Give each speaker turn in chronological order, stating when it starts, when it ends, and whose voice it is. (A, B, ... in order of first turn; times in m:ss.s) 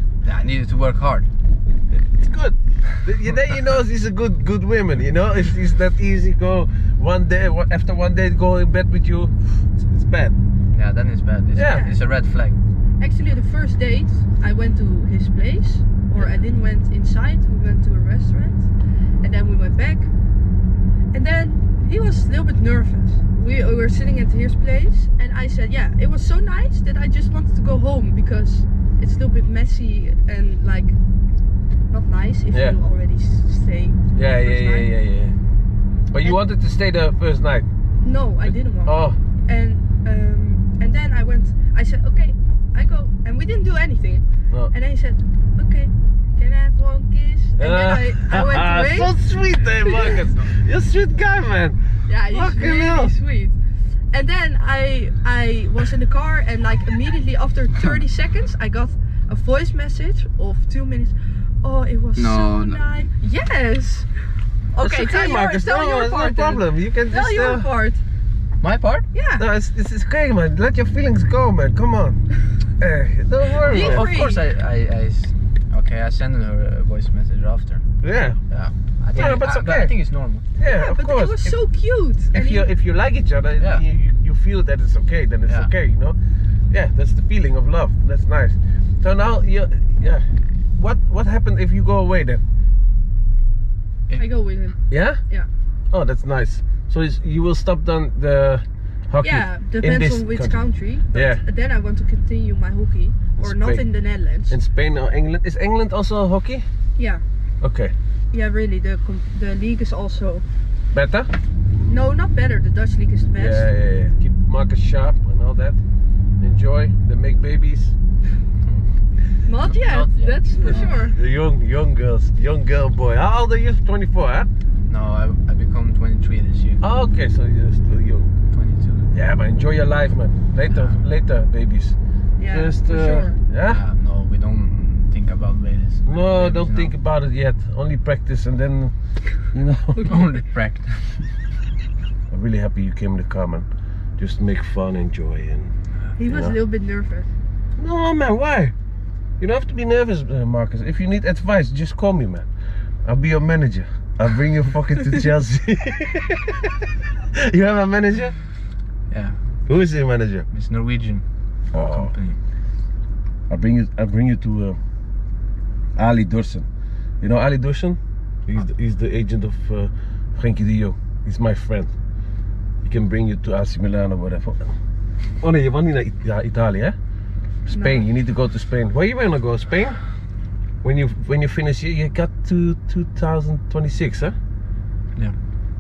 0:00.2-0:01.3 A
0:01.9-0:10.4 B
0:10.7-0:12.6 A
0:11.6-0:11.8 B
0:11.6-0:12.0 C
0:13.0-0:18.7 C
0:19.2-0:20.1 C
0:21.1-0:31.0 C
0:31.9-0:34.9 C
0:32.5-0:32.8 B
0:34.2-0:35.3 B
0:36.1-0:37.7 B
0:38.0-0:49.2 C
0:38.8-0:39.2 B
0:47.6-0:53.1 B
0:49.8-0:50.2 C
0:49.8-0:50.5 A
0:52.1-0:53.6 C
0:54.1-1:04.1 C
1:02.2-1:02.8 A
1:04.7-1:08.0 C
1:04.8-1:07.7 B
1:08.6-1:09.1 A
1:09.1-1:09.4 C
1:09.4-1:12.2 B
1:12.8-1:14.1 B
1:13.6-1:17.8 A
1:13.6-1:14.4 C
1:18.0-1:18.4 B
1:18.5-1:20.5 A
1:19.2-1:19.9 B
1:20.6-1:21.6 B
1:20.7-1:22.7 C
1:22.3-1:26.2 B
1:23.6-1:23.8 A
1:26.7-1:30.2 B
1:30.8-1:32.4 B
1:34.2-1:35.5 C
1:34.9-1:35.2 B
1:35.9-1:40.6 B
1:39.2-1:44.6 C
1:41.1-1:41.4 B
1:43.4-1:43.8 B
1:44.5-1:46.6 B
1:47.0-1:47.2 C
1:47.6-1:47.9 B
1:48.3-1:50.4 C
1:50.9-1:51.3 B
1:51.8-1:53.6 C
1:53.4-1:55.8 B
1:56.4-1:58.0 B
1:59.4-2:01.2 C
1:59.6-2:01.1 A
2:00.6-2:04.5 B
2:04.9-2:06.8 A
2:06.8-2:08.3 B
2:08.5-2:09.1 A
2:09.1-2:12.0 B
2:10.7-2:11.0 A
2:12.4-2:13.4 C
2:12.5-2:13.8 B
2:13.6-2:16.9 A
2:16.1-2:20.2 B
2:20.0-2:20.2 C
2:20.0-2:21.3 A
2:22.3-2:23.7 B
2:24.2-2:25.7 B
2:26.2-2:27.3 C
2:26.3-2:26.6 B
2:27.8-2:28.7 B
2:29.4-2:32.5 B
2:33.0-2:36.7 B
2:37.3-2:38.4 B
2:39.1-2:39.4 A
2:39.7-2:40.5 B
2:40.5-2:41.2 A
2:41.7-2:42.1 B
2:41.8-2:42.4 A
2:43.5-2:44.8 B
2:46.0-2:46.7 B
2:47.2-2:51.9 B
2:52.8-2:54.7 B
2:55.4-2:57.0 B
2:57.7-3:00.0 B
2:57.7-2:58.0 C
3:00.8-3:04.4 B